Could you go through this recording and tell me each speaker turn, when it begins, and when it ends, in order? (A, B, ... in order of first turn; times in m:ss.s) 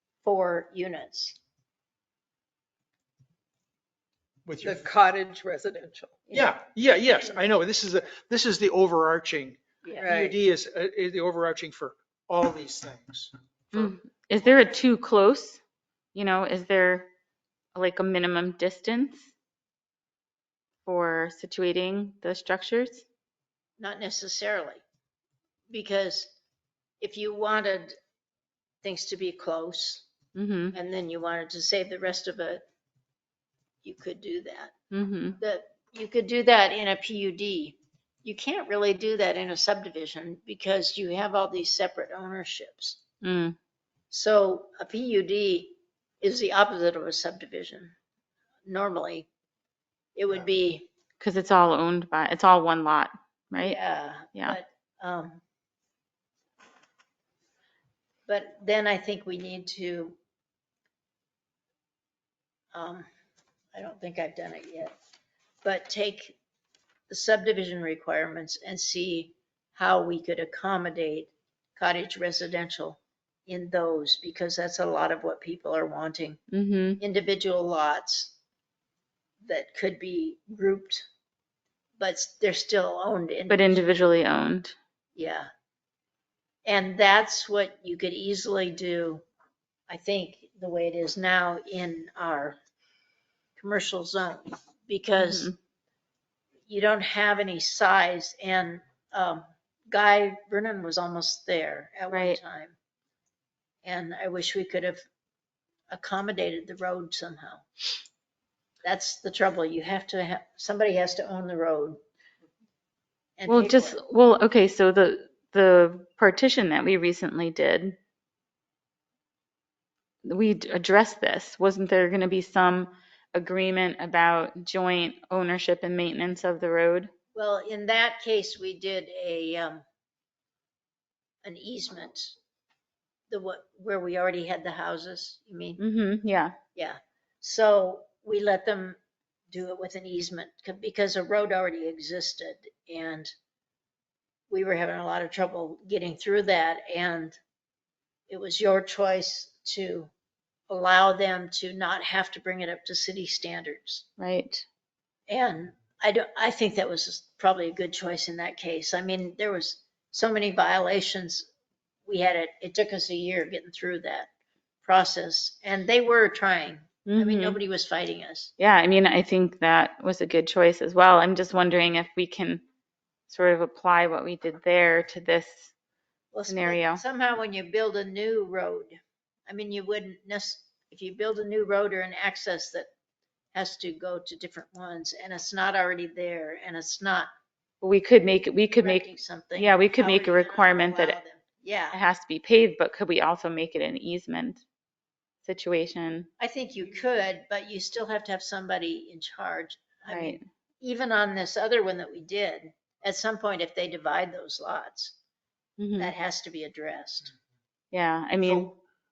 0:00.2-0:01.4 A
0:04.4-0:04.8 B
0:04.6-0:06.3 C
0:06.3-0:13.8 B
0:09.8-0:10.1 A
0:10.0-0:10.3 C
0:13.7-0:15.6 D
0:16.1-0:17.1 D
0:17.7-0:19.3 D
0:20.8-0:23.0 D
0:23.8-0:24.8 A
0:25.7-0:26.3 A
0:27.0-0:27.9 A
0:28.8-0:30.0 A
0:30.3-0:30.7 D
0:30.7-0:32.6 A
0:33.8-0:34.7 A
0:34.9-0:35.4 D
0:35.4-0:43.0 A
0:43.2-0:43.6 D
0:44.1-0:48.0 A
0:48.6-0:49.3 A
0:50.2-0:50.9 A
0:51.2-0:53.8 D
0:53.6-0:55.4 A
0:58.3-1:00.2 A
1:02.7-1:03.1 A
1:03.7-1:04.9 A
1:05.6-1:06.4 A
1:07.1-1:16.4 A
1:16.5-1:17.0 D
1:17.0-1:18.3 A
1:19.4-1:21.1 A
1:22.0-1:24.0 A
1:23.5-1:24.8 D
1:25.2-1:25.5 A
1:26.6-1:29.2 A
1:29.9-1:32.6 A
1:33.6-1:35.5 A
1:35.2-1:35.6 D
1:36.7-1:42.8 A
1:42.1-1:42.4 D
1:43.8-1:45.0 A
1:45.9-1:47.6 A
1:48.8-1:52.0 A
1:53.4-1:54.0 A
1:53.5-1:58.0 D
2:00.2-2:07.1 D
2:07.3-2:09.8 A
2:11.4-2:12.4 A
2:13.3-2:15.8 A
2:15.8-2:16.5 D
2:16.7-2:19.0 A
2:19.5-2:23.3 A
2:24.5-2:27.4 A
2:28.3-2:30.1 A
2:30.7-2:34.0 A
2:34.2-2:34.6 D
2:35.3-2:41.5 A
2:42.0-2:44.3 A
2:44.8-2:48.5 A
2:47.0-2:47.6 D
2:48.6-2:52.6 D
2:53.3-2:55.7 D
2:56.3-3:02.9 A
2:56.5-2:57.0 D
3:03.5-3:07.3 A
3:07.8-3:11.2 D
3:08.8-3:12.0 A
3:11.9-3:14.6 D
3:15.4-3:16.3 D
3:16.4-3:25.1 A
3:20.1-3:20.4 D
3:25.8-3:26.1 D
3:26.0-3:27.3 A
3:27.9-3:28.7 D
3:28.4-3:28.8 B